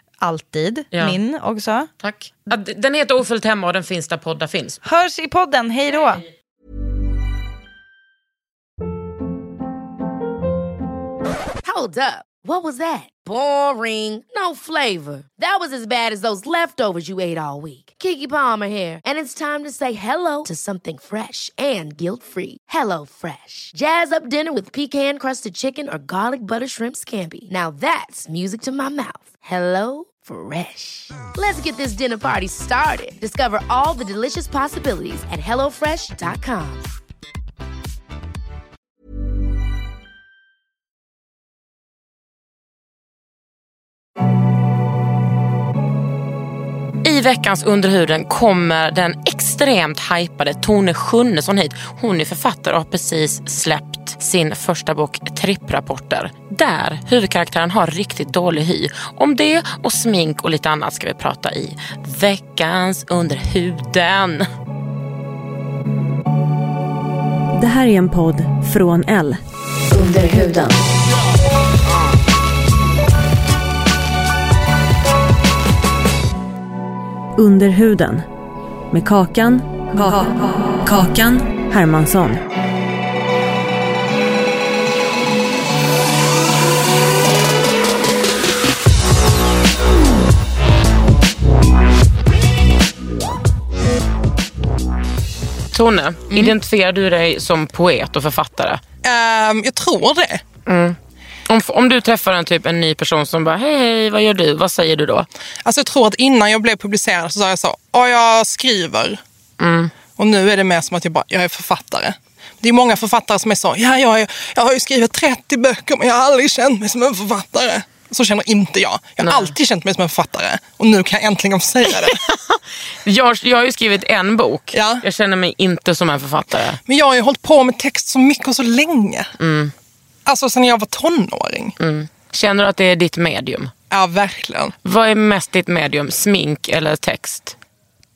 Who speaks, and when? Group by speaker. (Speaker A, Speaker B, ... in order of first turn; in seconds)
Speaker A: 0.2-1.9, 4.8-6.2
Speaker B: 0.9-1.2, 2.0-4.8, 47.0-64.5, 95.7-98.8, 100.7-101.0, 101.5-105.3, 109.6-109.9, 119.2-119.6, 121.9-126.8, 129.4-129.7, 131.8-133.7, 134.8-137.6
Speaker C: 11.6-36.9
Speaker D: 67.5-70.8, 77.4-78.3, 78.9-82.4
Speaker E: 99.0-100.4, 105.6-109.2, 110.2-122.2, 124.7-125.0, 126.9-129.3, 130.3-131.8, 133.9-134.7